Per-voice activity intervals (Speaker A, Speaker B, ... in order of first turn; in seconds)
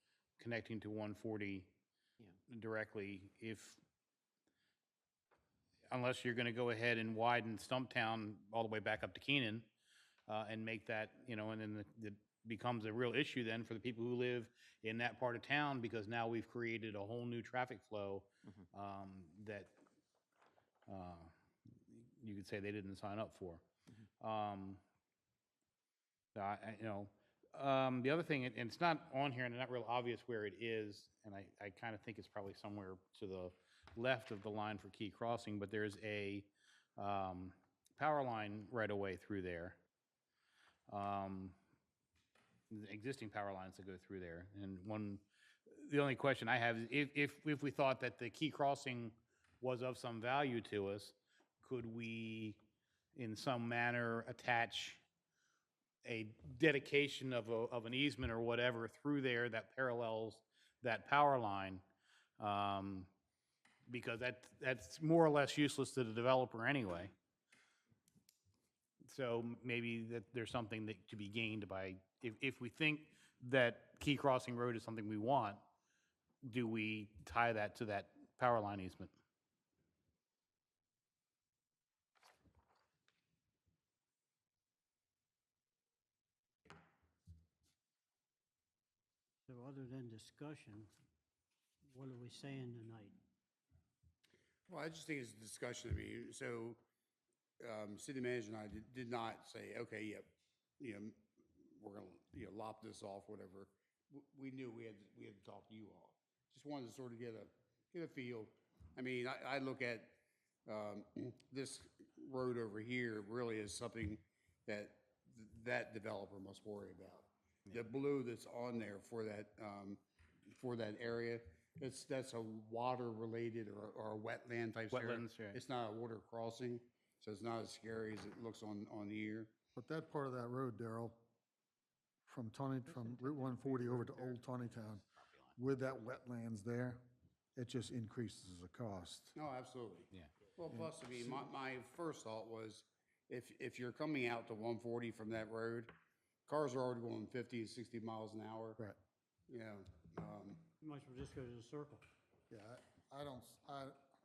Speaker A: 0.4-1.7, 2.5-3.8, 5.9-9.7, 10.3-19.7, 20.9-21.3, 21.9-23.6, 24.2-24.8, 26.4-39.8, 40.9-41.6, 42.7-52.6, 53.1-55.0, 56.0-61.8, 62.4-63.1, 63.9-67.1, 69.1-75.6, 76.4-79.1, 124.9-125.6, 134.7-135.6
Speaker B: 89.5-90.9, 91.9-93.2, 150.8-152.1
Speaker C: 94.7-96.8, 97.6-129.6, 139.3-145.9, 146.5-148.8, 149.5-150.7
Speaker D: 129.8-131.2, 132.3-137.0, 137.6-139.4, 140.7-141.4, 152.5-154.0